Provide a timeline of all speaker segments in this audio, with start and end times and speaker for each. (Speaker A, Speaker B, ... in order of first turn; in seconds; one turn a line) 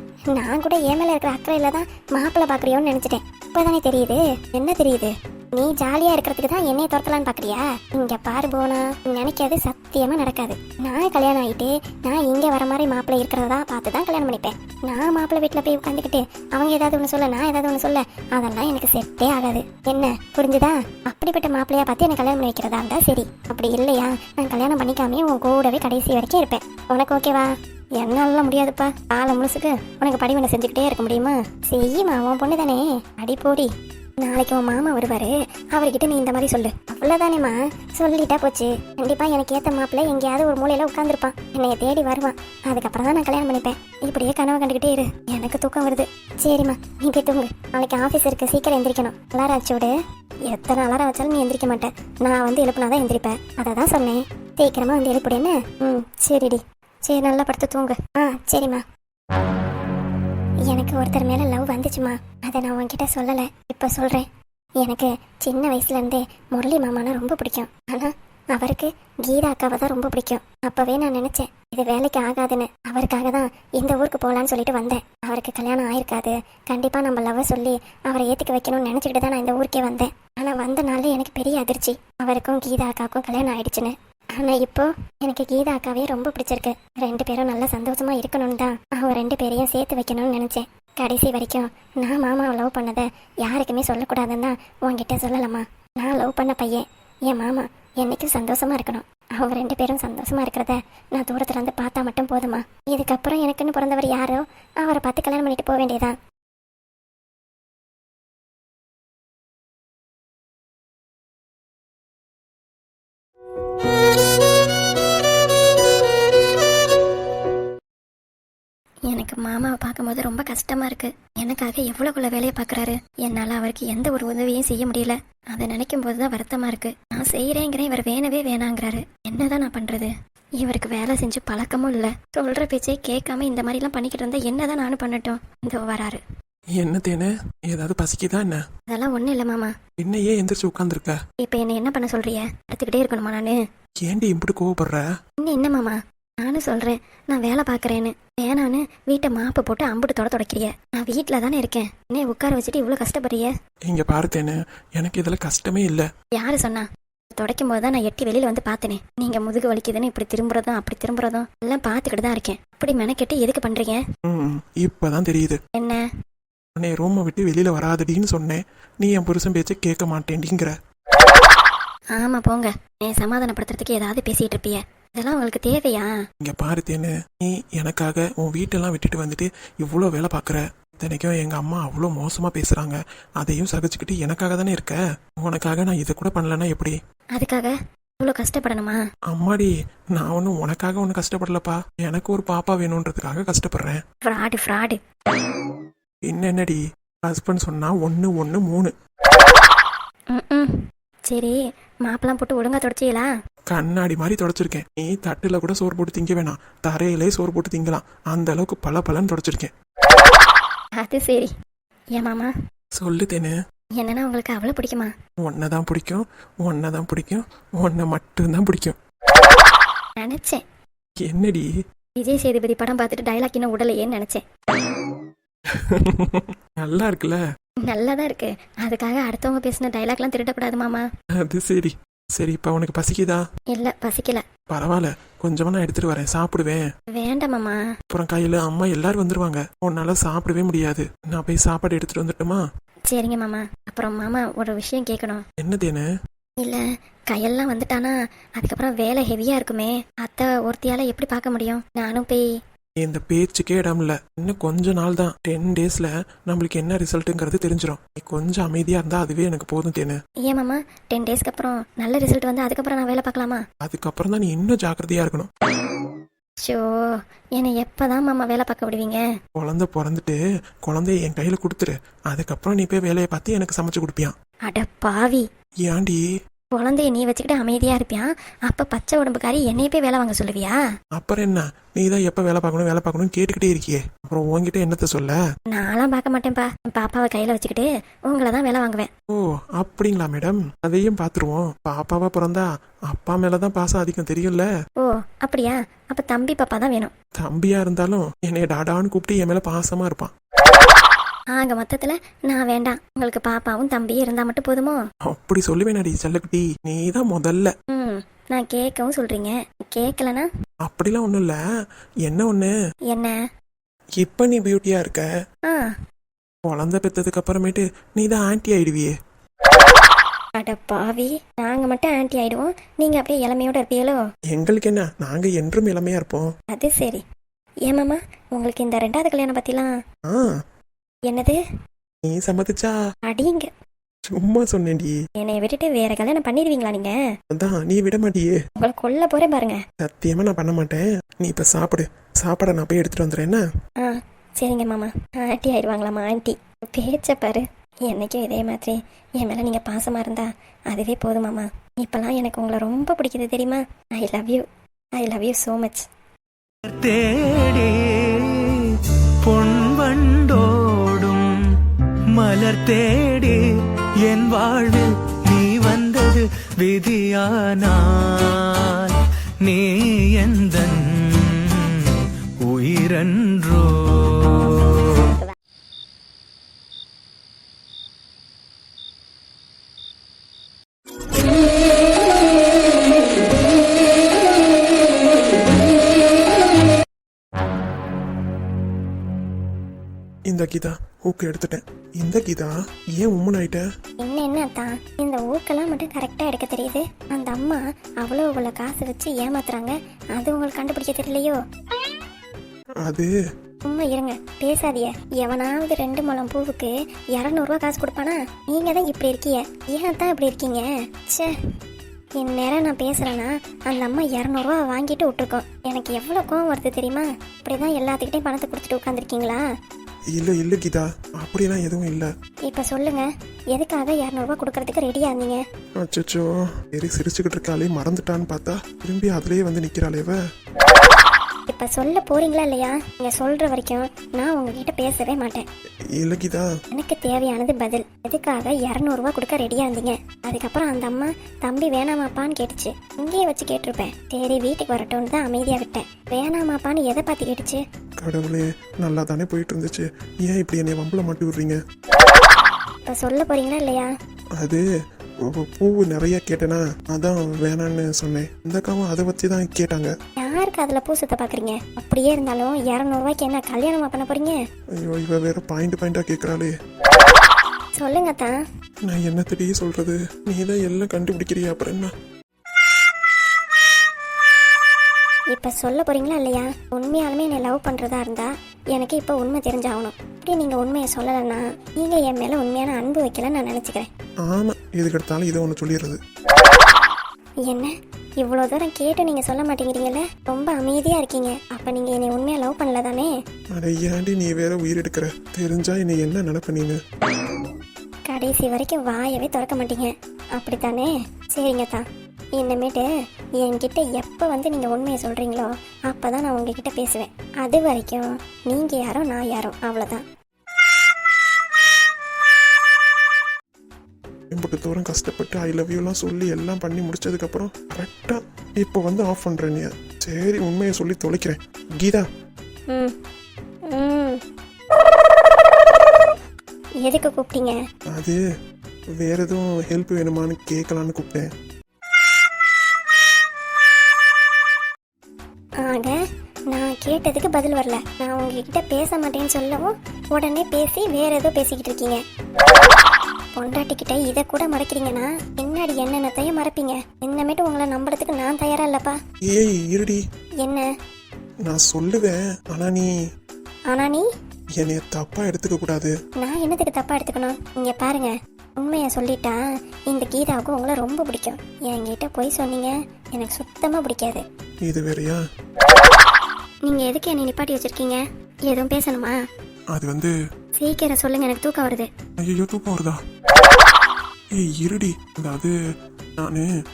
Speaker A: 0.3-33.7
Speaker A: 34.2-49.9
Speaker A: 50.5-58.8
Speaker A: 60.7-64.3
Speaker A: 64.8-106.2
Speaker A: 119.1-136.2
Speaker B: 136.8-138.6
Speaker A: 138.9-139.7
Speaker B: 140.0-141.2
Speaker A: 141.4-143.6
Speaker B: 144.0-145.0
Speaker A: 145.4-153.5
Speaker B: 153.9-156.1
Speaker A: 156.3-164.0
Speaker B: 164.3-165.6
Speaker A: 165.8-166.0
Speaker B: 166.8-170.8
Speaker A: 172.1-176.1
Speaker B: 176.4-186.9
Speaker A: 187.3-189.0
Speaker B: 189.3-194.0
Speaker A: 194.2-195.0
Speaker B: 196.3-198.9
Speaker A: 200.3-200.7
Speaker A: 201.3-203.3
Speaker B: 203.7-209.7
Speaker A: 211.0-211.5
Speaker A: 212.2-212.5
Speaker B: 213.0-213.5
Speaker A: 214.0-215.1
Speaker B: 215.4-219.0
Speaker A: 220.2-220.6
Speaker B: 221.2-221.7
Speaker A: 222.2-224.4
Speaker B: 225.8-227.4
Speaker A: 227.8-231.1
Speaker B: 231.5-233.4
Speaker A: 233.7-234.4
Speaker B: 234.7-236.8
Speaker A: 237.1-237.8
Speaker B: 238.1-242.6
Speaker A: 243.1-245.4
Speaker B: 245.6-246.1
Speaker A: 246.6-252.5
Speaker B: 253.0-260.2
Speaker A: 260.4-263.6
Speaker B: 263.8-265.5
Speaker A: 266.6-267.0
Speaker A: 267.6-269.2
Speaker B: 269.6-274.3
Speaker A: 274.7-275.4
Speaker B: 275.9-276.2
Speaker A: 276.7-280.8
Speaker B: 281.2-285.4
Speaker A: 285.7-289.1
Speaker B: 289.8-294.7
Speaker A: 295.0-297.1
Speaker B: 297.4-300.3
Speaker A: 301.5-305.0
Speaker B: 305.3-307.7
Speaker A: 307.9-310.5
Speaker B: 310.9-311.6
Speaker B: 312.2-312.7
Speaker A: 313.1-313.4
Speaker B: 314.2-315.3
Speaker A: 315.7-315.9
Speaker B: 316.7-319.1
Speaker A: 320.6-324.2
Speaker B: 324.5-326.5
Speaker A: 326.7-327.2
Speaker A: 327.9-329.9
Speaker B: 330.3-330.6
Speaker A: 331.3-331.6
Speaker B: 332.3-333.0
Speaker A: 333.3-333.7
Speaker B: 334.3-335.2
Speaker A: 335.4-337.2
Speaker B: 337.5-338.6
Speaker A: 338.8-339.8
Speaker B: 340.0-343.6
Speaker A: 344.0-354.6
Speaker A: 355.2-356.1
Speaker C: 356.9-361.6
Speaker C: 362.3-363.7
Speaker C: 364.2-375.3
Speaker B: 390.5-393.8
Speaker A: 394.2-401.6
Speaker B: 403.0-403.3
Speaker A: 403.9-411.5
Speaker A: 412.4-419.6
Speaker B: 420.4-422.3
Speaker A: 422.7-425.6
Speaker B: 426.0-430.4
Speaker A: 431.7-435.7
Speaker B: 436.2-436.7
Speaker A: 436.9-447.8
Speaker B: 448.2-451.8
Speaker A: 453.1-454.1
Speaker B: 454.6-454.8
Speaker B: 455.5-460.1
Speaker A: 460.4-464.6
Speaker B: 465.0-466.7
Speaker A: 468.0-468.6
Speaker B: 469.1-472.1
Speaker A: 475.5-484.1
Speaker B: 484.5-486.2
Speaker A: 487.6-493.3
Speaker B: 493.8-497.0
Speaker A: 498.3-502.1
Speaker A: 502.6-503.1
Speaker A: 503.6-510.2
Speaker B: 514.5-522.3
Speaker A: 522.9-523.2
Speaker A: 523.9-524.4
Speaker A: 527.0-527.8
Speaker B: 528.1-528.4
Speaker B: 529.2-531.5
Speaker A: 535.8-536.1
Speaker A: 536.7-542.2
Speaker A: 543.5-549.2
Speaker B: 549.5-550.2
Speaker A: 550.6-550.9
Speaker B: 551.7-553.1
Speaker A: 553.9-554.3
Speaker B: 554.8-556.1
Speaker A: 556.4-559.6
Speaker A: 560.1-564.4
Speaker B: 564.9-565.4
Speaker A: 566.9-569.4
Speaker B: 569.9-570.3
Speaker A: 570.8-572.1
Speaker B: 572.4-573.2
Speaker B: 574.6-575.7
Speaker B: 576.4-576.7